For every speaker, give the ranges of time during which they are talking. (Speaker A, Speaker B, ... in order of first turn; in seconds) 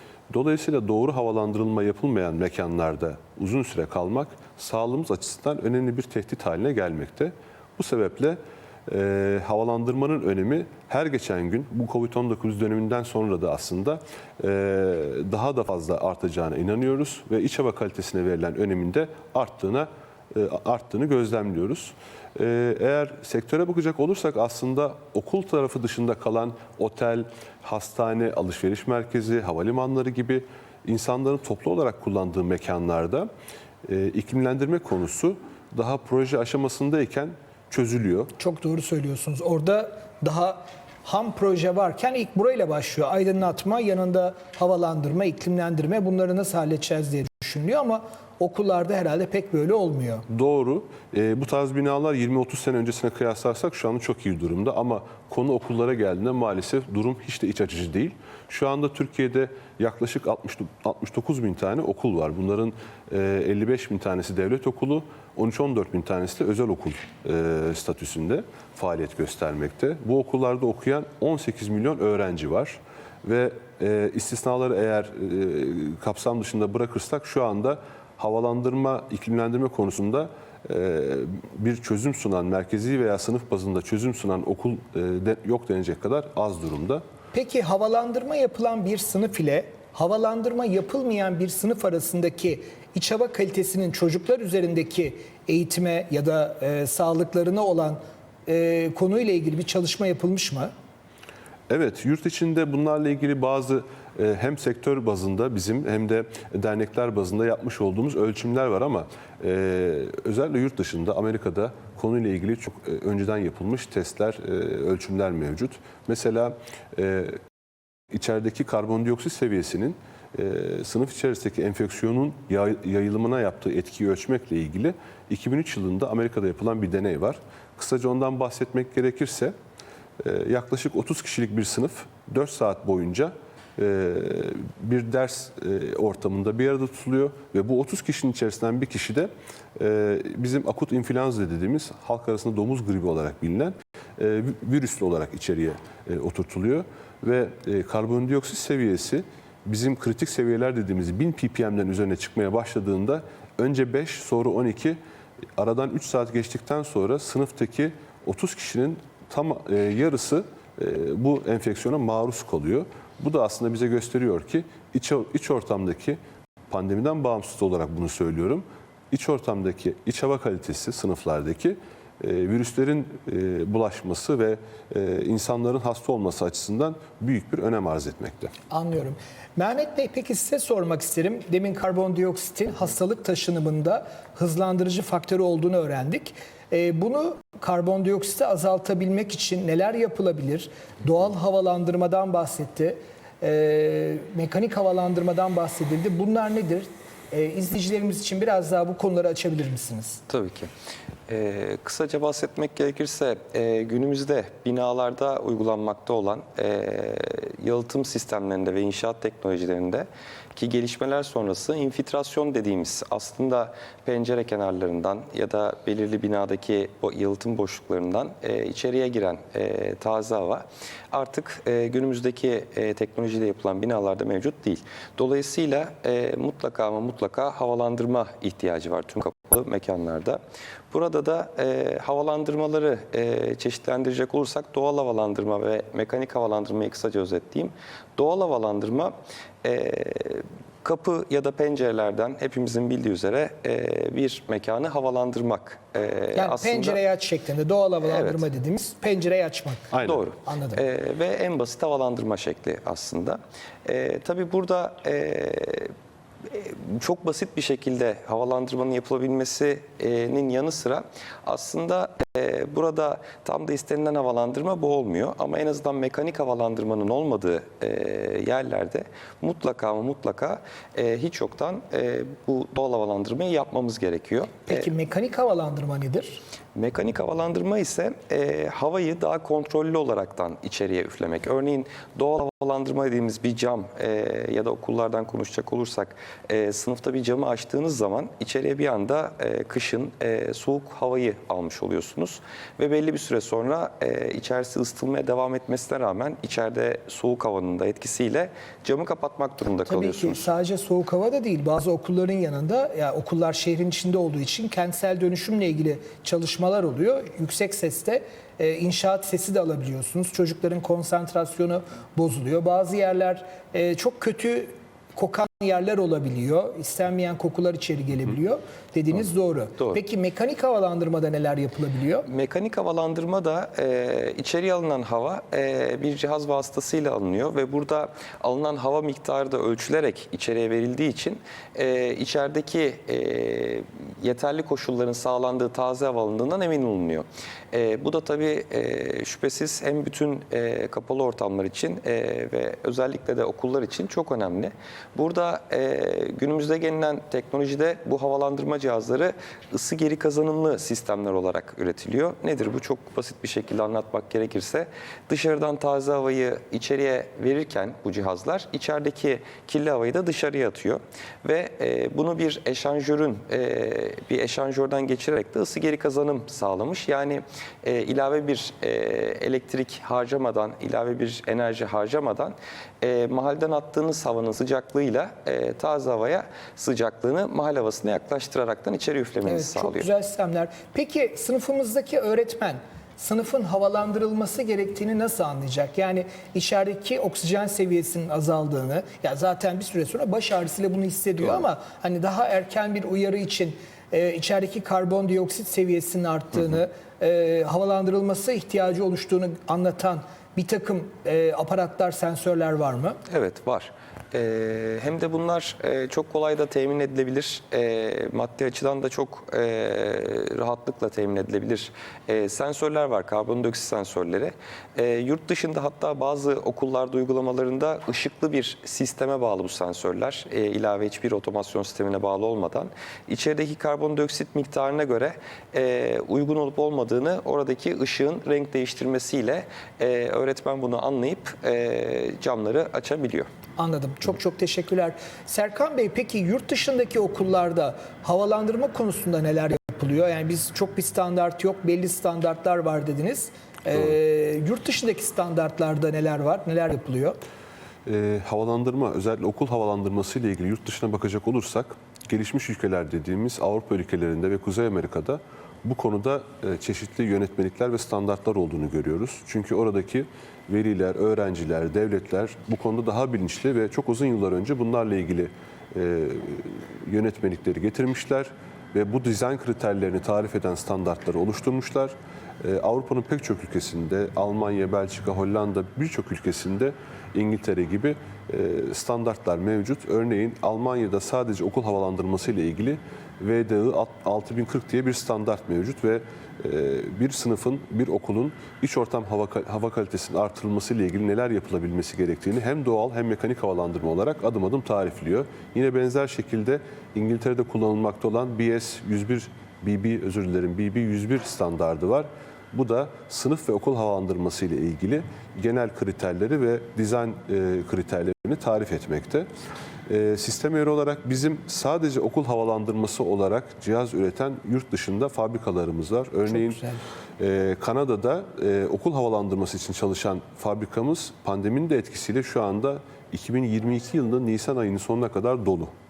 Speaker A: 0.3-33.3, 33.8-38.3, 50.3-87.0, 101.7-117.4, 118.1-129.5, 130.2-155.0, 155.6-166.2, 166.7-178.5, 249.9-250.2, 448.1-509.5, 510.1-516.8, 517.4-525.9
Speaker B: 38.4-50.2, 87.3-100.7, 178.7-200.2, 246.3-249.9, 250.4-250.8, 274.7-276.4, 299.9-322.3, 379.4-403.2, 433.8-447.4, 516.5-517.0
Speaker C: 200.3-200.7, 201.3-230.4, 230.9-247.0, 248.1-248.4, 250.0-255.9, 256.5-274.9, 276.7-300.5, 322.2-380.1, 403.3-433.5